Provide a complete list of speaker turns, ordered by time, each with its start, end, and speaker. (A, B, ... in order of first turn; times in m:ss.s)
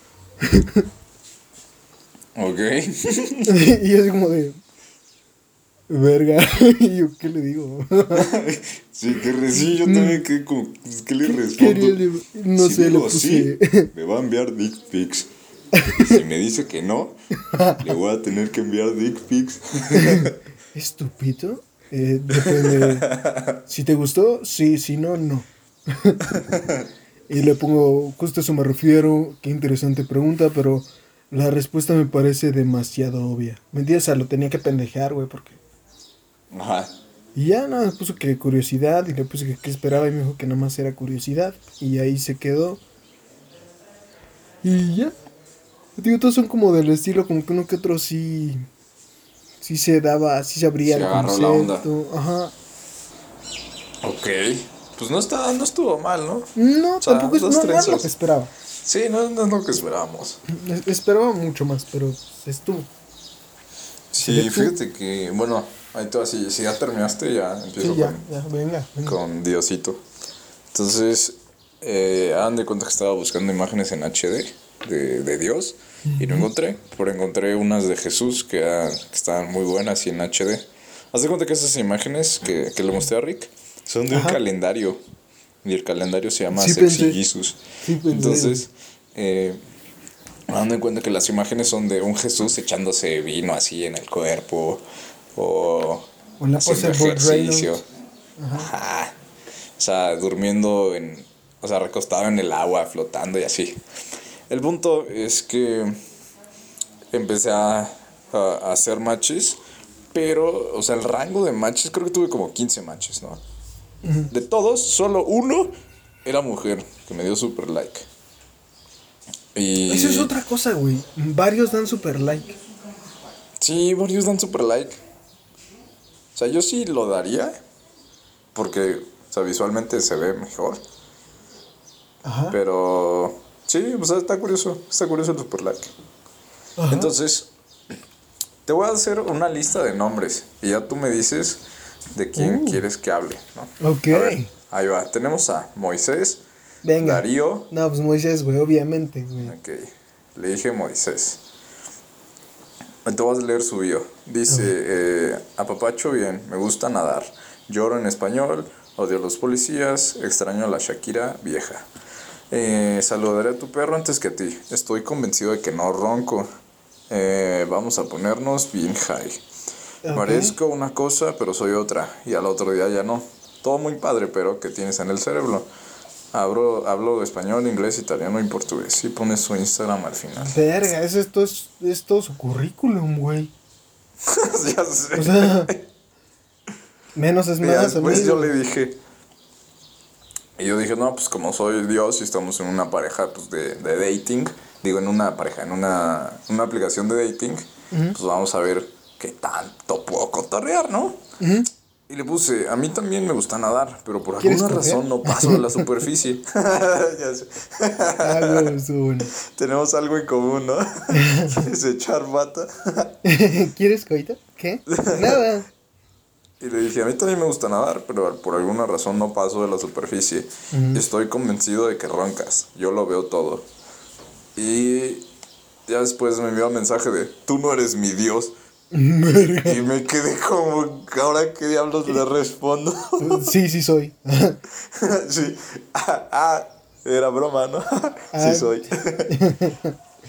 0:00.4-0:00.9 A
0:02.3-0:03.5 B
0:03.4-0:04.6 A
0:05.9-0:08.3 A
0:08.1-0:12.0 B
0:09.5-0:10.2 A
0:11.2-0:13.9 A
0:12.5-0:15.3 B
0:15.7-0:16.2 A
0:16.0-0:17.2 B
0:17.4-0:17.9 A
0:17.8-0:20.3 B
0:19.9-0:23.1 A
0:22.3-0:23.6 B
0:23.6-0:26.4 A
0:26.3-0:26.8 B
0:27.3-0:35.6 A
0:36.5-0:36.9 B
0:37.3-0:42.8 A
0:44.6-0:45.1 A
0:46.0-0:48.7 A
0:49.6-0:52.5 A
0:50.8-0:51.9 B
0:54.0-0:56.5 B
0:56.6-0:58.5 A
0:57.0-0:58.1 B
0:58.8-1:00.4 B
1:00.5-1:02.9 A
1:04.1-1:08.2 B
1:04.2-1:04.7 A
1:07.8-1:09.2 A
1:09.0-1:10.0 B
1:10.7-1:25.0 B
1:16.1-1:16.4 A
1:24.1-1:24.4 A
1:25.6-1:29.6 B
1:26.5-1:27.2 A
1:27.8-1:28.6 A
1:30.5-1:34.8 B
1:35.3-1:36.1 B
1:36.4-1:37.8 A
1:36.6-1:37.8 B
1:38.4-1:38.7 A
1:38.5-1:39.2 B
1:39.8-1:43.8 B
1:44.5-1:46.0 B
1:47.1-1:49.6 B
1:50.1-1:53.4 B
1:54.0-1:54.3 A
1:54.3-1:58.1 B
1:59.5-2:00.3 B
1:59.9-2:02.6 A
2:03.6-2:05.0 B
2:06.3-2:07.6 B
2:08.5-2:10.8 B
2:12.2-2:12.6 A
2:12.5-2:15.9 B
2:16.8-2:17.1 A
2:16.9-2:17.5 B
2:18.6-2:21.6 B
2:22.1-2:26.4 B
2:22.4-2:22.8 A
2:23.8-2:24.5 A
2:26.8-2:29.5 A
2:27.0-2:27.7 B
2:29.4-2:31.4 B
2:33.0-2:41.9 B
2:42.5-2:46.5 B
2:47.1-2:49.4 B
2:50.0-2:50.6 A
2:50.1-2:55.7 B
2:56.3-3:00.6 B
3:00.4-3:03.5 A
3:04.2-3:05.8 B
3:05.1-3:05.7 A
3:07.1-3:08.5 A
3:07.6-3:09.0 B
3:10.6-3:21.2 B
3:17.9-3:18.2 A
3:21.4-3:21.7 A
3:22.1-3:28.7 B
3:24.4-3:25.9 A
3:28.2-3:29.3 A
3:29.3-3:33.1 B
3:31.1-3:31.6 A
3:33.2-3:35.7 A
3:34.9-3:35.4 B
3:36.6-3:43.7 B
3:40.7-3:41.0 A
3:44.5-3:45.2 B
3:45.9-3:48.5 B
3:48.9-3:49.8 A
3:49.6-3:53.5 B
3:53.2-3:54.6 A
3:54.8-3:59.4 B
3:58.3-4:00.0 A